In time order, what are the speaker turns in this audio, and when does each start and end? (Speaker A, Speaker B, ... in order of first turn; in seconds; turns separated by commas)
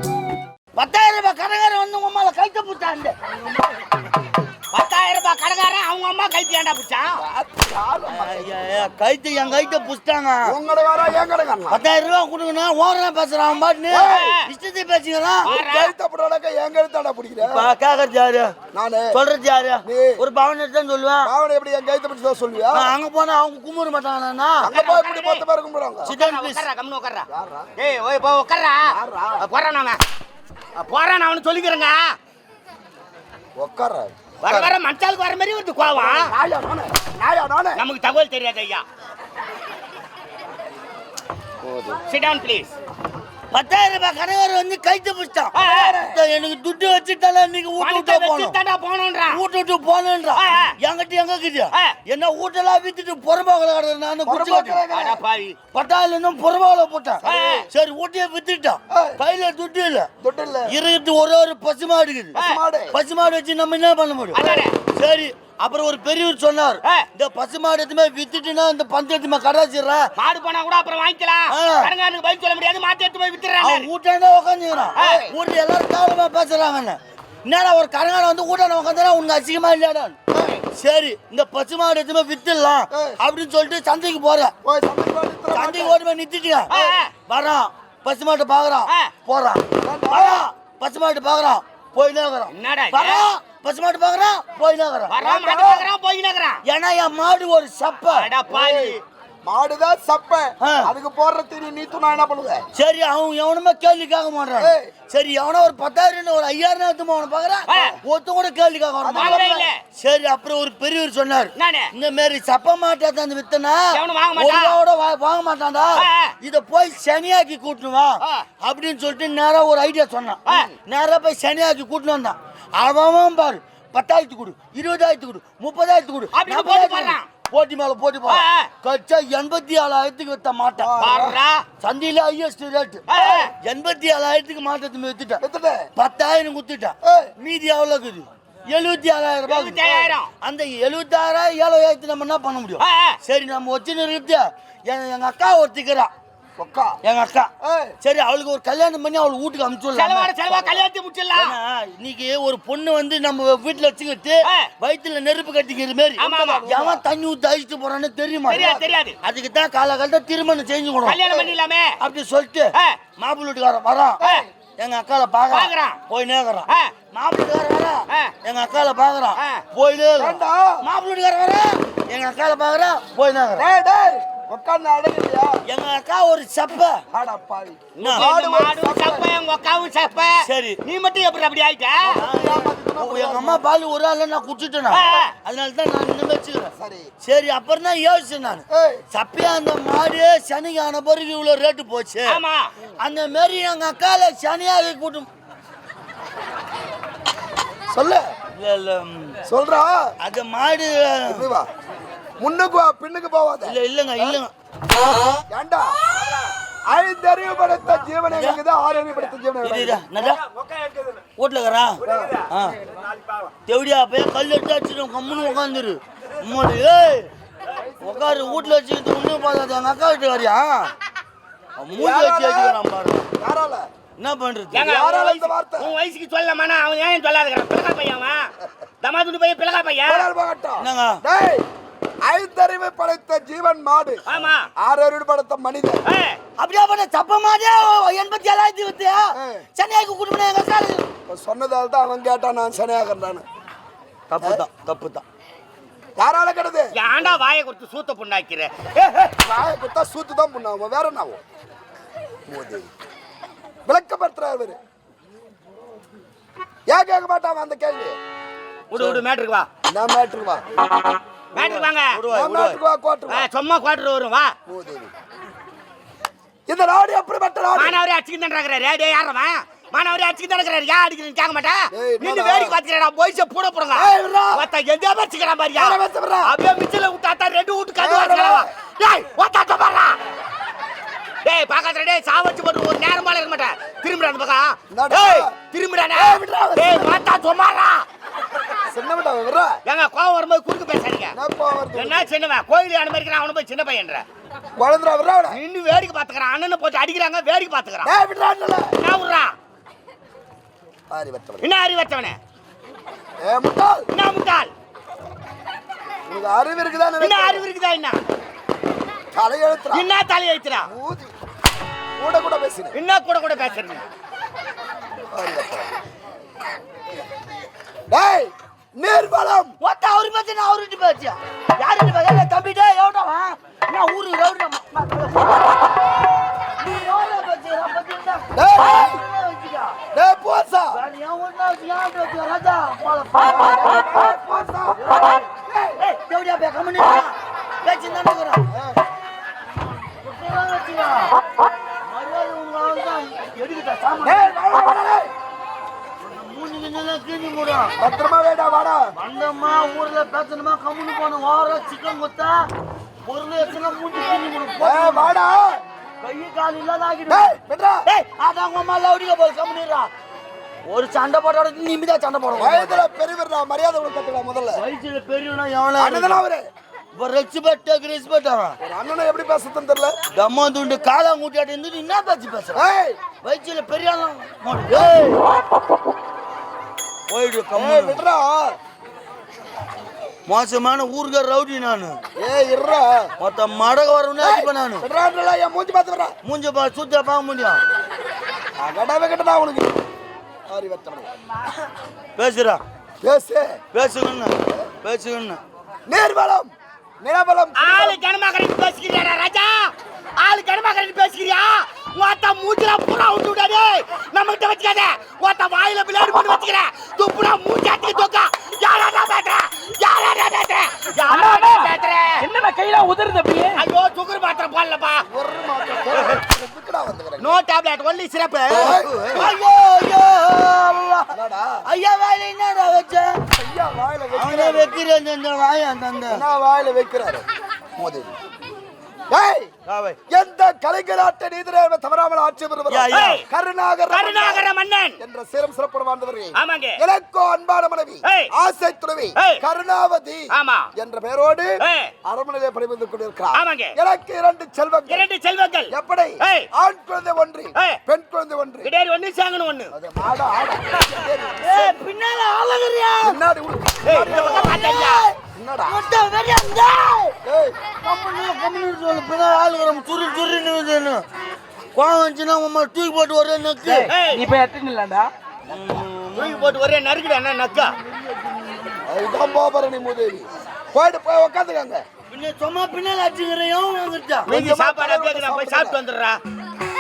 Speaker A: 0.8-3.1, Speaker B: 4.7-7.2, Speaker C: 7.2-8.6, Speaker A: 8.1-10.5, Speaker C: 10.4-11.8, Speaker A: 11.7-15.5, Speaker C: 13.9-14.3, Speaker B: 14.1-14.5, Speaker B: 15.4-15.9, Speaker C: 15.4-17.7, Speaker A: 17.4-18.5, Speaker C: 18.7-19.2, Speaker A: 19.1-21.3, Speaker C: 19.8-20.2, Speaker C: 21.2-22.9, Speaker A: 22.7-24.7, Speaker C: 24.6-26.1, Speaker B: 24.7-25.4, Speaker A: 26.0-26.6, Speaker B: 26.0-27.2, Speaker C: 27.3-27.7, Speaker B: 27.8-28.8, Speaker C: 28.9-29.5, Speaker B: 29.4-30.0, Speaker B: 30.8-32.0, Speaker C: 33.6-34.7, Speaker B: 34.4-36.3, Speaker C: 35.9-37.8, Speaker B: 37.8-38.8, Speaker C: 41.6-42.0, Speaker B: 42.1-42.7, Speaker A: 43.5-48.5, Speaker B: 45.5-46.0, Speaker C: 45.6-46.2, Speaker B: 47.8-49.4, Speaker A: 49.3-54.8, Speaker B: 50.4-50.7, Speaker B: 51.7-52.0, Speaker C: 54.2-55.2, Speaker B: 54.9-55.6, Speaker A: 55.7-60.1, Speaker C: 57.2-57.6, Speaker B: 57.2-57.7, Speaker C: 58.9-59.2, Speaker C: 60.2-60.7, Speaker A: 60.7-62.4, Speaker B: 62.3-62.6, Speaker C: 62.4-63.0, Speaker A: 62.9-70.1, Speaker B: 64.3-64.7, Speaker B: 70.2-73.9, Speaker A: 71.5-71.9, Speaker A: 73.6-80.2, Speaker B: 75.0-75.3, Speaker C: 75.0-75.3, Speaker B: 80.3-80.6, Speaker A: 80.7-84.5, Speaker C: 82.9-83.2, Speaker C: 84.6-86.0, Speaker A: 85.5-86.7, Speaker B: 86.7-87.1, Speaker C: 86.7-87.0, Speaker A: 87.3-95.1, Speaker C: 89.8-90.4, Speaker B: 92.5-93.2, Speaker B: 95.1-96.6, Speaker C: 95.2-95.9, Speaker A: 96.6-98.3, Speaker B: 98.1-99.0, Speaker C: 98.5-102.7, Speaker A: 100.6-100.9, Speaker A: 102.7-130.9, Speaker C: 104.6-104.9, Speaker B: 107.7-107.9, Speaker C: 109.0-109.6, Speaker B: 109.1-109.8, Speaker B: 111.5-111.9, Speaker B: 113.9-114.8, Speaker B: 116.0-116.3, Speaker B: 118.2-118.5, Speaker B: 120.5-120.7, Speaker B: 126.3-127.3, Speaker B: 128.3-128.7, Speaker C: 130.8-131.3, Speaker B: 131.0-131.6, Speaker A: 131.8-135.4, Speaker B: 133.1-133.5, Speaker C: 135.4-135.9, Speaker A: 135.9-139.8, Speaker C: 137.0-137.3, Speaker B: 139.4-140.3, Speaker C: 139.8-140.1, Speaker A: 140.4-146.1, Speaker B: 142.8-143.2, Speaker C: 146.6-147.0, Speaker A: 147.0-150.3, Speaker C: 147.6-147.9, Speaker B: 149.9-151.5, Speaker A: 151.3-161.2, Speaker B: 156.2-156.7, Speaker C: 156.2-157.0, Speaker B: 158.5-159.2, Speaker C: 158.5-158.8, Speaker B: 161.0-162.0, Speaker C: 161.3-161.6, Speaker A: 162.0-164.2, Speaker B: 162.7-163.0, Speaker C: 164.2-164.5, Speaker B: 164.2-164.5, Speaker A: 164.8-173.6, Speaker B: 165.5-166.0, Speaker B: 166.7-166.9, Speaker B: 169.4-169.6, Speaker C: 170.2-170.8, Speaker C: 173.6-175.6, Speaker A: 175.7-177.0, Speaker C: 177.1-179.3, Speaker B: 178.0-180.3, Speaker A: 178.0-178.3, Speaker A: 180.4-180.8, Speaker B: 180.8-182.2, Speaker C: 182.0-183.6, Speaker A: 182.1-192.4, Speaker B: 184.9-185.3, Speaker C: 186.8-187.1, Speaker C: 188.7-189.0, Speaker B: 192.2-192.7, Speaker A: 193.0-195.3, Speaker C: 197.9-198.3, Speaker A: 198.6-199.4, Speaker C: 199.4-200.1, Speaker A: 200.2-201.4, Speaker C: 201.3-201.7, Speaker C: 202.4-204.4, Speaker A: 203.6-204.5, Speaker C: 205.5-206.0, Speaker C: 206.9-210.0, Speaker A: 208.3-208.6, Speaker A: 209.6-210.4, Speaker A: 211.4-212.8, Speaker C: 212.0-212.4, Speaker A: 213.7-217.3, Speaker C: 218.0-218.6, Speaker A: 218.0-220.9, Speaker A: 221.8-223.3, Speaker C: 221.9-222.8, Speaker C: 223.4-223.9, Speaker A: 224.2-224.8, Speaker B: 224.7-228.5, Speaker C: 224.8-225.9, Speaker B: 229.0-230.3, Speaker C: 230.1-231.7, Speaker A: 230.8-231.2, Speaker C: 232.2-234.2, Speaker B: 234.3-234.6, Speaker C: 234.8-236.0, Speaker B: 236.1-236.4, Speaker A: 236.6-241.1, Speaker C: 239.3-239.7, Speaker C: 241.3-243.4, Speaker A: 244.3-245.2, Speaker C: 246.2-246.9, Speaker B: 246.9-249.3, Speaker C: 249.4-251.4, Speaker C: 252.5-252.9, Speaker C: 253.8-254.8, Speaker C: 256.9-258.2, Speaker B: 258.9-259.6, Speaker A: 259.0-259.2, Speaker C: 259.9-260.6, Speaker B: 261.5-262.2, Speaker A: 261.6-262.8, Speaker C: 262.3-263.5, Speaker B: 263.3-264.5, Speaker C: 264.7-265.1, Speaker C: 266.7-268.0, Speaker B: 267.7-280.2, Speaker C: 271.9-272.8, Speaker C: 273.9-274.6, Speaker C: 275.8-276.5, Speaker C: 278.0-278.7, Speaker B: 281.4-288.1, Speaker C: 284.9-285.5, Speaker C: 286.1-287.2, Speaker C: 288.9-289.8, Speaker B: 289.9-291.3, Speaker C: 291.3-292.3, Speaker B: 291.9-294.2, Speaker C: 294.8-295.6, Speaker B: 295.5-298.1, Speaker C: 298.0-298.9, Speaker B: 299.0-299.5, Speaker C: 301.1-301.7, Speaker B: 301.6-302.4, Speaker C: 303.4-304.1, Speaker B: 304.1-304.7, Speaker C: 306.3-307.7, Speaker B: 307.2-308.2, Speaker C: 309.3-310.1, Speaker B: 309.9-310.9, Speaker C: 310.8-311.3, Speaker C: 312.2-312.9, Speaker B: 312.9-314.0, Speaker C: 315.3-315.9, Speaker C: 318.1-319.7, Speaker A: 319.8-325.5, Speaker A: 326.8-330.0, Speaker C: 328.5-329.2, Speaker C: 330.1-331.0, Speaker A: 330.9-334.0, Speaker C: 333.4-335.0, Speaker A: 334.9-338.7, Speaker C: 335.7-336.0, Speaker C: 338.7-339.0, Speaker A: 340.2-341.3, Speaker A: 342.0-344.5, Speaker C: 344.2-345.3, Speaker A: 346.2-347.9, Speaker C: 348.0-349.1, Speaker A: 349.1-352.7, Speaker A: 353.2-355.3, Speaker C: 354.8-355.8, Speaker A: 356.2-357.5, Speaker C: 357.3-358.1, Speaker A: 358.1-360.1, Speaker A: 360.9-363.0, Speaker C: 362.6-364.8, Speaker A: 364.7-366.4, Speaker C: 366.0-366.6, Speaker A: 367.1-368.8, Speaker C: 368.8-370.1, Speaker A: 370.3-372.8, Speaker C: 372.7-373.2, Speaker A: 373.4-375.4, Speaker A: 377.3-378.2, Speaker C: 377.7-378.8, Speaker A: 380.5-382.2, Speaker C: 382.4-383.3, Speaker A: 383.4-385.0, Speaker C: 384.4-386.4, Speaker A: 386.4-387.8, Speaker C: 388.8-389.9, Speaker C: 390.7-391.3, Speaker A: 392.4-392.8, Speaker C: 393.2-393.8, Speaker A: 393.9-395.6, Speaker C: 396.1-398.2, Speaker B: 397.8-412.4, Speaker D: 411.3-413.8, Speaker B: 413.8-415.2, Speaker C: 415.2-417.6, Speaker B: 416.1-416.4, Speaker B: 417.4-419.0, Speaker C: 418.7-419.5, Speaker A: 418.7-421.3, Speaker C: 421.3-421.8, Speaker A: 421.9-423.4, Speaker C: 423.5-425.0, Speaker A: 424.3-426.4, Speaker C: 426.3-427.4, Speaker C: 428.0-428.3, Speaker C: 429.3-429.7, Speaker A: 429.9-430.2, Speaker C: 430.3-434.7, Speaker A: 432.9-433.4, Speaker B: 433.1-433.4, Speaker B: 434.1-435.2, Speaker C: 435.2-441.7, Speaker B: 436.5-437.0, Speaker B: 438.2-438.5, Speaker B: 439.4-439.6, Speaker B: 440.5-440.9, Speaker B: 441.8-442.1, Speaker C: 442.2-445.2, Speaker B: 443.5-443.9, Speaker B: 445.1-446.7, Speaker C: 445.9-448.9, Speaker B: 448.8-449.9, Speaker C: 449.9-451.8, Speaker A: 451.6-453.4, Speaker C: 453.2-455.0, Speaker B: 454.0-455.2, Speaker A: 454.2-455.3, Speaker C: 455.5-456.0, Speaker A: 455.9-457.4, Speaker C: 457.4-457.8, Speaker A: 458.0-461.2, Speaker A: 461.9-464.1, Speaker D: 463.8-465.3, Speaker B: 464.1-464.4, Speaker A: 465.7-466.8, Speaker B: 466.4-467.9, Speaker A: 468.0-469.0, Speaker C: 469.1-472.0, Speaker A: 472.3-474.5, Speaker C: 474.5-476.0, Speaker B: 474.5-476.4